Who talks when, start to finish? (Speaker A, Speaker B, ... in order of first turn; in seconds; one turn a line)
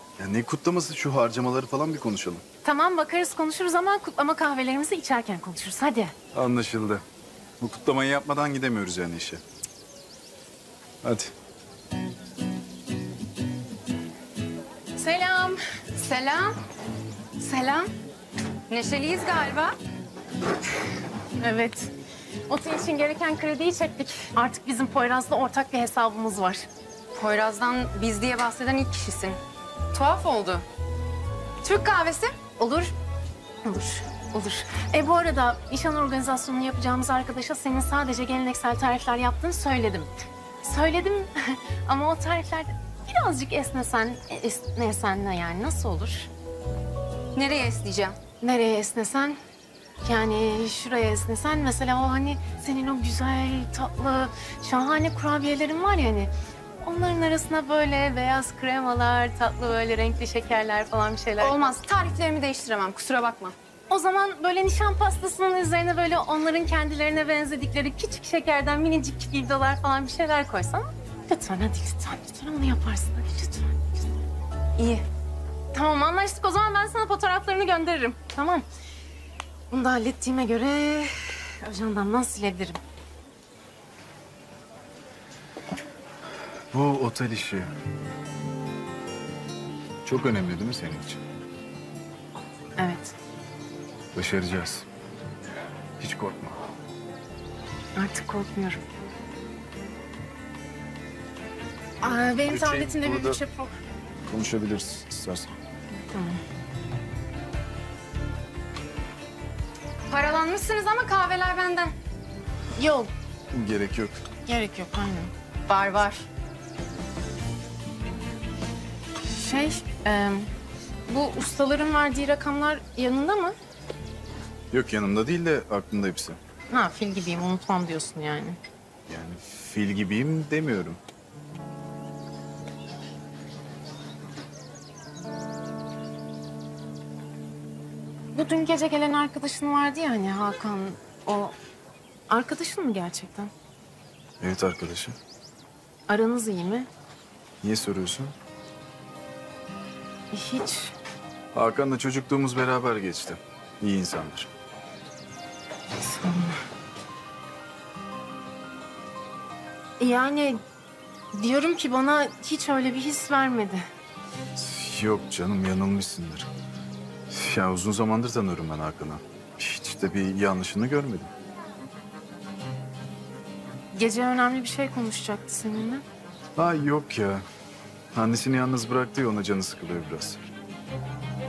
Speaker A: 0.2-2.4
Speaker B: 2.6-6.1
Speaker A: 6.3-7.0
Speaker A: 7.6-9.4
Speaker A: 11.0-11.3
Speaker B: 14.9-15.6
Speaker C: 15.9-16.6
Speaker C: 17.4-17.9
Speaker C: 18.7-19.8
Speaker B: 21.4-21.9
Speaker B: 22.5-26.7
Speaker C: 27.1-29.4
Speaker C: 29.9-30.6
Speaker C: 31.6-32.6
Speaker B: 32.6-32.9
Speaker B: 33.6-46.3
Speaker C: 47.3-48.1
Speaker B: 48.4-49.4
Speaker B: 50.0-61.6
Speaker C: 61.4-63.5
Speaker B: 63.9-74.2
Speaker C: 74.8-75.0
Speaker B: 75.7-78.6
Speaker B: 79.7-82.8
Speaker A: 86.7-87.7
Speaker A: 90.0-91.2
Speaker B: 92.8-93.1
Speaker A: 94.1-94.9
Speaker A: 96.0-96.6
Speaker B: 98.0-98.8
Speaker B: 102.0-103.7
Speaker A: 102.1-103.4
Speaker A: 104.2-105.5
Speaker B: 106.1-106.4
Speaker C: 110.1-111.9
Speaker B: 112.8-113.1
Speaker A: 113.5-114.2
Speaker B: 114.5-115.3
Speaker C: 115.7-116.2
Speaker B: 119.2-120.5
Speaker B: 121.1-123.5
Speaker A: 124.7-126.4
Speaker B: 126.7-128.6
Speaker A: 129.1-131.0
Speaker B: 138.3-141.5
Speaker B: 142.3-143.5
Speaker A: 144.4-145.1
Speaker B: 146.1-146.9
Speaker A: 147.6-148.3
Speaker B: 150.3-150.9
Speaker A: 151.5-154.5
Speaker B: 156.0-156.6
Speaker B: 160.0-160.6
Speaker B: 161.3-163.8
Speaker A: 164.5-166.5
Speaker A: 167.3-171.3
Speaker B: 173.9-176.0
Speaker A: 176.6-177.4
Speaker A: 178.1-180.4